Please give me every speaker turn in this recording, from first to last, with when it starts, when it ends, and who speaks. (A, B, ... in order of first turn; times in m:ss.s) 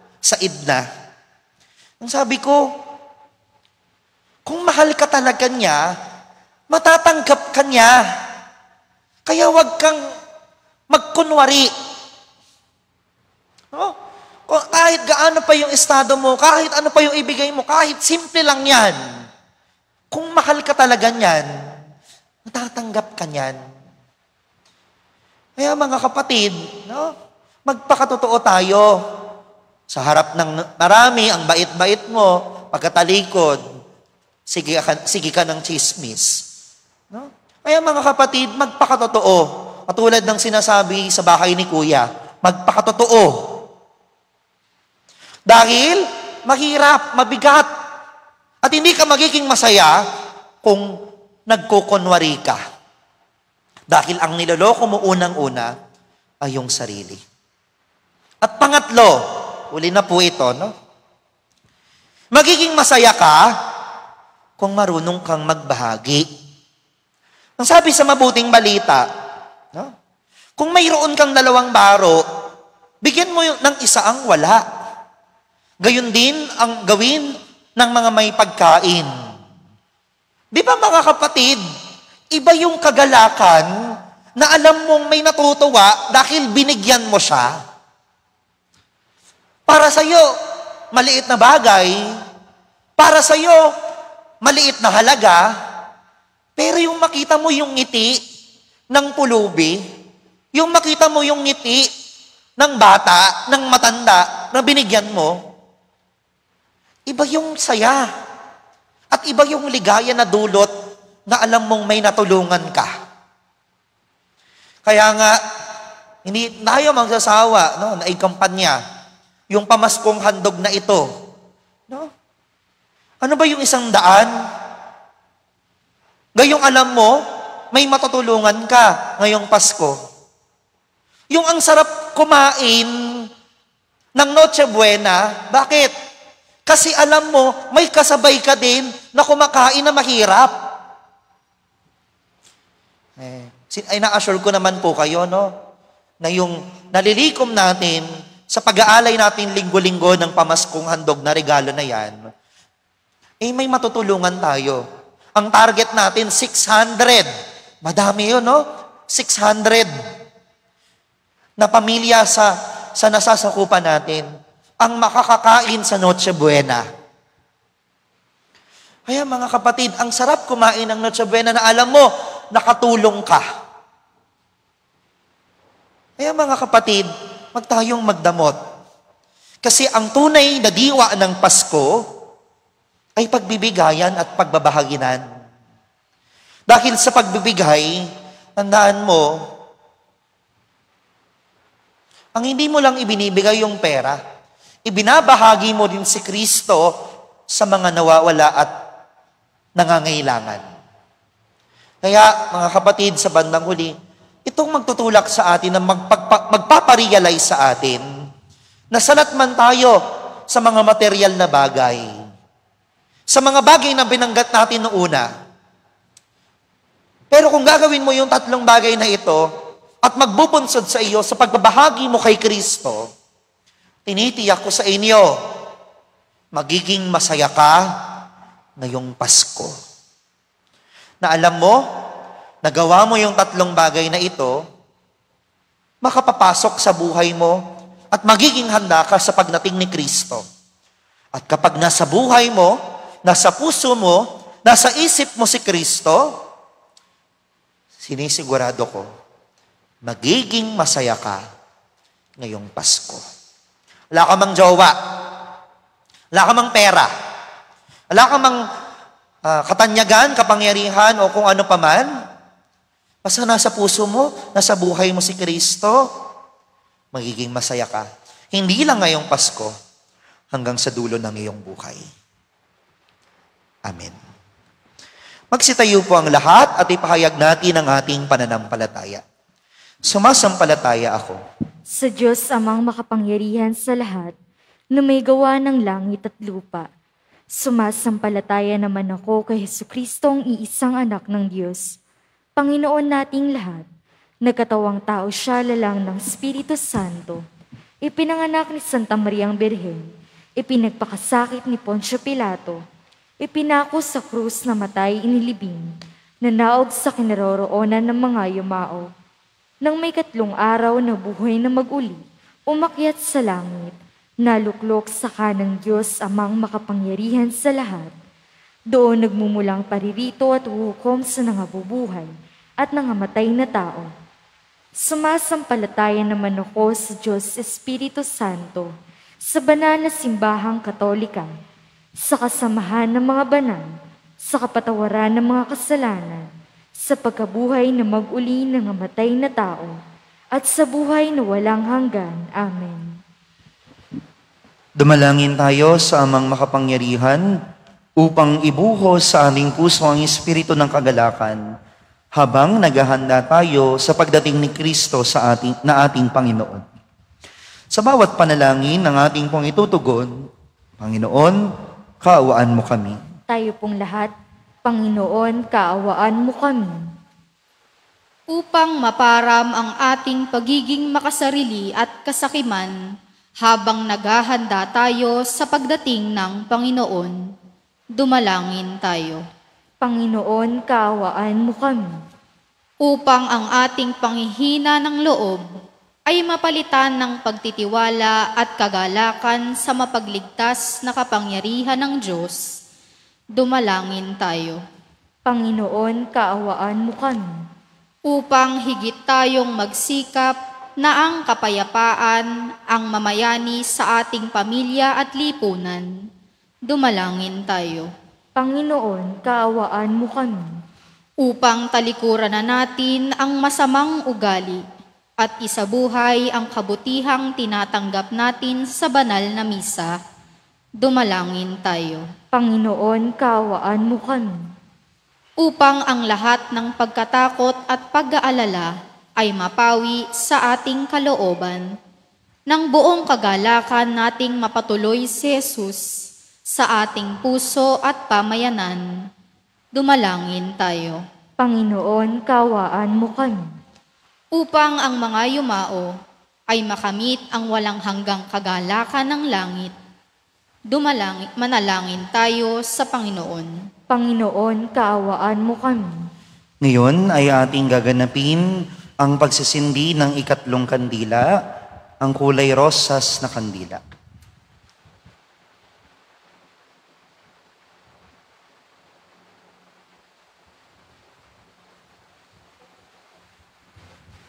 0:00.2-0:00.8 A
0:02.0-0:02.7 A
0:04.4-0:05.8 A
0:06.7-0:08.0 A
0:09.2-0:10.0 A
0:10.9-0:11.7 A
0:14.5-0:19.0 A
0:20.1-0:21.5 A
0:22.4-0:23.6 A
0:25.6-0:27.1 A
0:27.6-0:28.9 A
0:29.9-0:33.6 A
0:34.5-0:36.4 A
0:37.1-0:43.6 A
0:45.5-0:47.7 A
0:48.6-0:50.0 A
0:50.6-0:50.9 A
0:51.5-0:52.6 A
0:53.9-0:55.7 A
0:56.4-0:57.2 A
0:58.4-0:59.2 A
0:59.7-1:00.7 A
1:02.3-1:03.4 A
1:04.6-1:06.2 A
1:07.6-1:09.0 A
1:10.6-1:12.2 A
1:13.0-1:14.6 A
1:15.8-1:19.1 A
1:20.5-1:21.6 A
1:22.3-1:23.7 A
1:24.4-1:27.6 A
1:29.7-1:30.2 A
1:30.9-1:32.0 A
1:33.0-1:33.6 A
1:34.4-1:35.4 A
1:36.6-1:38.2 A
1:38.9-1:39.8 A
1:40.5-1:41.8 A
1:42.6-1:45.4 A
1:47.1-1:48.1 A
1:49.1-1:50.7 A
1:51.3-1:52.9 A
1:54.8-1:55.4 A
1:56.2-1:58.8 A
1:59.5-2:01.1 A
2:03.2-2:04.3 A
2:06.4-2:07.2 A
2:07.7-2:10.0 A
2:11.3-2:12.9 A
2:14.2-2:15.9 A
2:16.7-2:20.6 A
2:23.2-2:25.6 A
2:26.2-2:32.3 A
2:33.4-2:34.8 A
2:35.4-2:37.3 A
2:37.8-2:39.9 A
2:41.6-2:44.3 A
2:44.8-2:46.8 A
2:49.1-2:53.4 A
2:56.2-2:58.6 A
2:59.6-3:02.0 A
3:03.2-3:05.2 A
3:06.7-3:08.0 A
3:08.6-3:09.3 A
3:12.4-3:14.2 A
3:14.8-3:16.9 A
3:17.5-3:18.7 A
3:19.8-3:20.6 A
3:22.0-3:23.9 A
3:24.4-3:28.0 A
3:28.9-3:30.0 A
3:30.5-3:32.1 A
3:33.3-3:35.3 A
3:37.3-3:39.5 A
3:40.0-3:43.1 A
3:44.1-3:45.4 A
3:46.5-3:47.9 A
3:48.8-3:49.7 A
3:51.2-3:51.8 A
3:52.6-3:54.6 A
3:56.0-3:57.6 A
3:58.1-4:00.4 A
4:01.3-4:06.3 A
4:08.0-4:09.1 A
4:10.0-4:11.4 A
4:12.4-4:13.2 A
4:14.1-4:15.0 A
4:16.3-4:17.1 A
4:18.1-4:18.6 A
4:19.4-4:22.1 A
4:23.2-4:26.0 A
4:27.1-4:29.7 A
4:30.5-4:32.0 A
4:33.8-4:34.2 A
4:35.5-4:39.2 A
4:40.1-4:41.4 A
4:41.9-4:44.3 B
4:44.9-4:46.9 B
4:47.6-4:51.8 B
4:52.6-4:53.8 B
4:54.4-4:57.4 B
4:58.0-5:00.0 B
5:00.6-5:02.8 B
5:03.4-5:05.9 B
5:06.4-5:09.1 B
5:09.8-5:18.1 B
5:18.9-5:24.1 B
5:25.0-5:28.9 B
5:29.4-5:31.5 B
5:32.2-5:33.8 B
5:34.5-5:39.9 B
5:40.5-5:43.2 B
5:45.0-5:47.4 A
5:48.2-5:51.6 A
5:52.3-5:56.8 A
5:57.9-6:00.3 A
6:01.0-6:01.6 A
6:02.2-6:03.2 A
6:03.5-6:04.3 B
6:04.8-6:07.0 B
6:08.5-6:12.9 C
6:13.6-6:17.3 C
6:18.2-6:19.4 C
6:20.0-6:22.1 B
6:23.0-6:25.6 C
6:26.3-6:32.6 C
6:33.6-6:34.8 C
6:35.4-6:37.4 B
6:38.3-6:46.1 C
6:46.9-6:48.1 C
6:48.6-6:50.6 B
6:51.4-6:54.8 C
6:55.4-7:00.1 C
7:01.0-7:02.2 C
7:02.5-7:04.6 B
7:05.6-7:11.8 C
7:12.7-7:16.0 C
7:16.7-7:19.0 C
7:19.9-7:21.2 C
7:21.6-7:23.6 B
7:24.5-7:26.1 C
7:26.7-7:29.9 C
7:30.9-7:33.7 C
7:34.1-7:36.1 B
7:36.8-7:38.6 A
7:39.2-7:41.5 A
7:42.2-7:44.0 A